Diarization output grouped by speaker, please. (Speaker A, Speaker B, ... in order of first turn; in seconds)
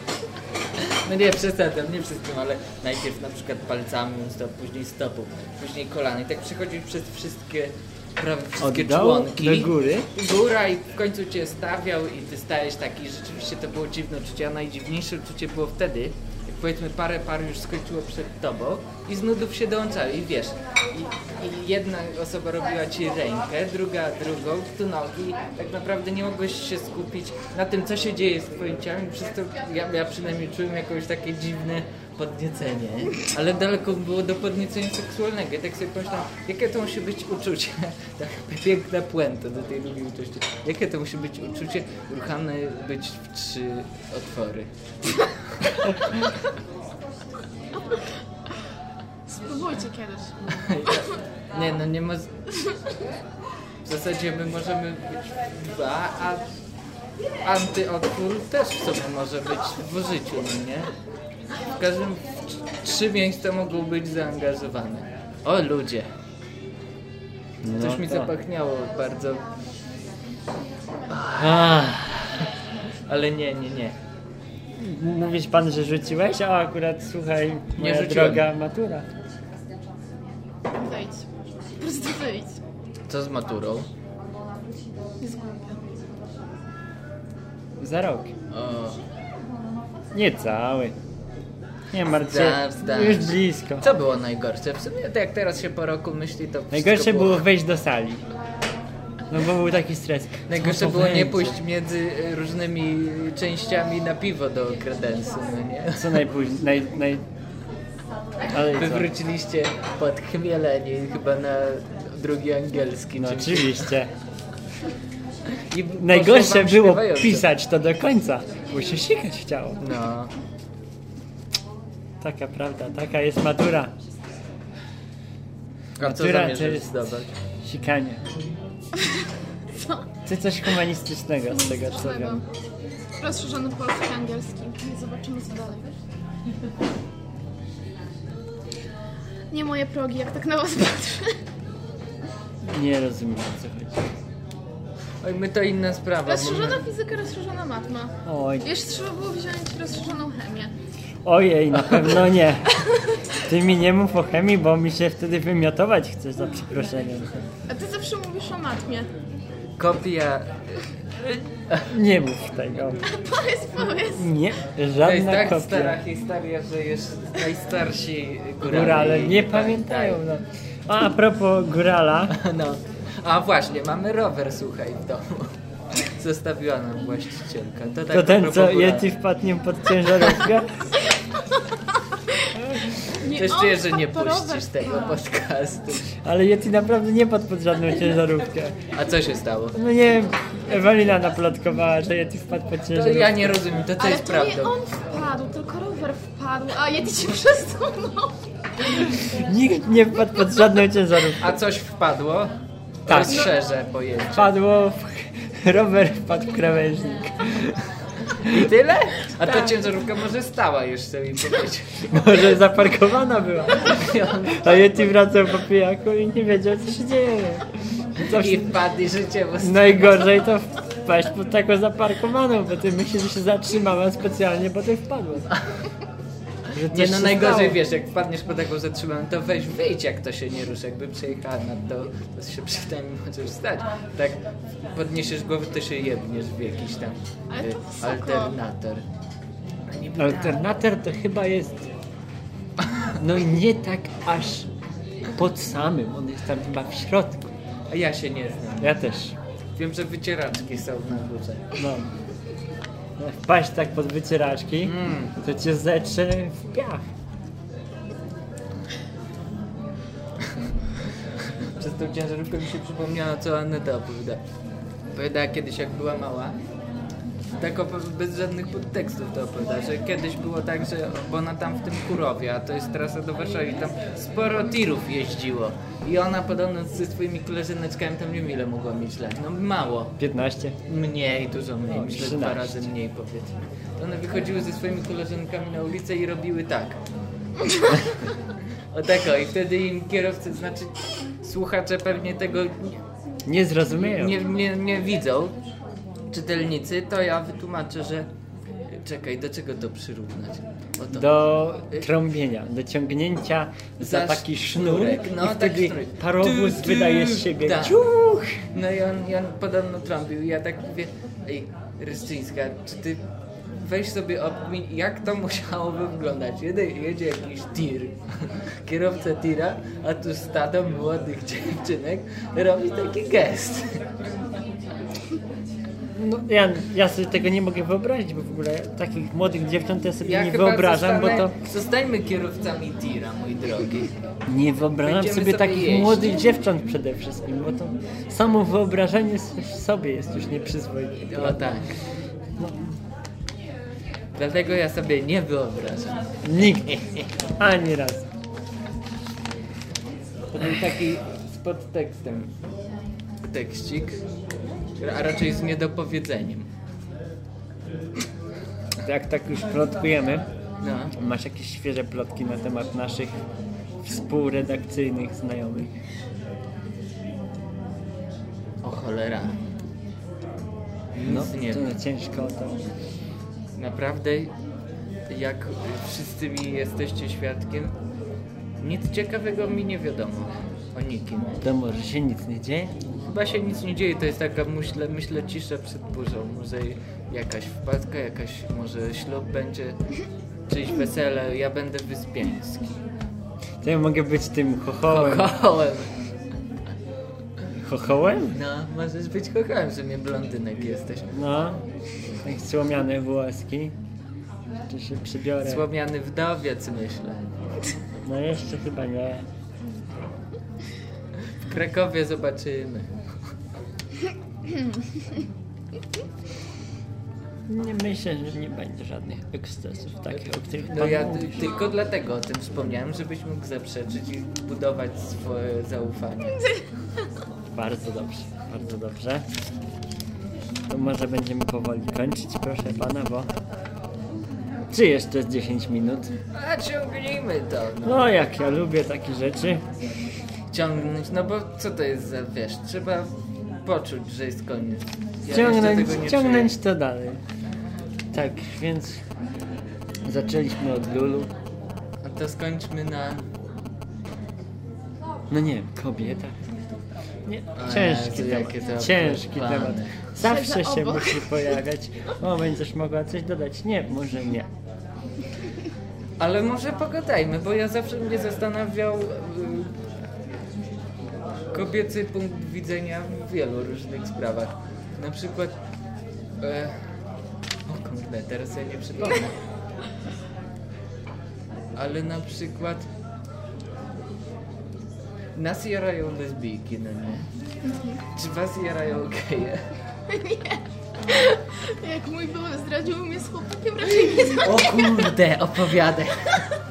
Speaker A: 0.8-44.7, 45.6-45.9, 50.5-52.3, 53.8-56.5, 57.4-60.9, 61.7-66.1, 67.8-69.5, 71.1-71.9, 73.1-74.0, 77.8-78.5, 83.1-83.9, 88.5-89.0, 92.2-97.4, 100.5-106.2, 108.7-113.9, 115.7-117.5, 119.8-120.3, 126.0-127.3, 145.2-146.8, 159.8-161.8, 165.0-170.2, 172.3-179.1, 183.2-186.0, 188.9-189.8, 192.9-194.7, 201.4-202.6, 203.1-204.5, 208.4-212.4, 213.9-215.2, 218.3-220.4, 226.8-239.1, 239.9-240.6, 247.9-249.0, 249.8-251.8, 254.8-255.3, 261.4-264.4, 265.1-266.6, 267.6-280.2, 280.9-287.0, 288.9-293.0, 294.0-295.6, 296.3-298.3, 298.9-302.1, 304.0-308.1, 308.7-324.0, 330.2-334.1, 335.0-336.4, 341.3-341.9, 344.3-347.3, 350.5-352.5, 353.4-354.2, 355.0-356.7, 360.8-361.1, 368.8-369.6, 371.1-371.9, 373.8-374.5, 375.3-377.9, 378.8-381.6, 383.2-390.0, 390.7-393.0, 395.1-396.1, 398.5-401.3, 405.6-407.5, 411.6-413.1, 420.3-426.6, 436.5-438.3, 440.7-446.7, 452.2-453.4, 457.8-460.2, 466.4-469.9, 471.7-475.8, 476.6-477.0, 477.9-479.5, 481.9-483.1, 485.5-487.5, 488.3-489.9, 494.4-496.6
Speaker B: 8.6-10.1, 67.6-68.3, 71.3-72.0, 74.8-79.1, 87.8-88.3, 90.1-91.0, 91.9-93.8, 96.7-98.2, 99.3-101.6, 105.9-107.2, 108.5-109.1, 113.2-114.1, 116.0-119.8, 122.2-123.9, 126.0-127.0, 127.6-128.2, 130.2-132.4, 142.7-144.0, 148.2-148.7, 151.2-152.8, 153.4-157.3, 161.9-163.0, 164.1-166.0, 168.6-172.4, 178.1-180.8, 186.2-188.8, 189.7-193.6, 199.1-201.6, 203.1-203.5, 204.3-207.8, 212.1-214.0, 214.6-217.6, 218.2-218.7, 219.6-225.5, 226.7-227.8, 240.2-241.8, 243.2-244.7, 245.3-247.5, 248.8-249.3, 251.8-252.1, 253.2-257.0, 280.2-280.8, 281.9-282.9, 293.5-294.4, 301.1-308.6, 326.1-331.6, 334.5-341.7, 342.6-342.9, 346.4-347.0, 347.6-348.2, 359.0-360.5, 361.1-363.4, 364.0-365.9, 371.2-372.8, 381.6-382.9, 393.8-395.5, 397.8-398.6, 401.3-401.8, 402.4-403.9, 404.9-405.8, 408.2-409.4, 417.7-421.7, 427.7-429.4, 430.9-433.5, 434.9-436.3, 438.0-439.8, 445.5-447.4, 448.3-449.2, 450.2-451.5, 455.5-456.6, 457.5-464.7
Speaker C: 49.3-50.3, 80.7-81.2, 81.8-82.6, 85.2-85.9, 129.7-130.1, 131.5-132.4, 133.2-135.9, 139.5-141.3, 146.2-150.7, 157.7-159.1, 163.1-164.3, 183.1-185.2, 194.0-198.3, 237.5-238.5, 426.5-426.8, 460.4-461.7, 487.8-488.2, 490.3-495.1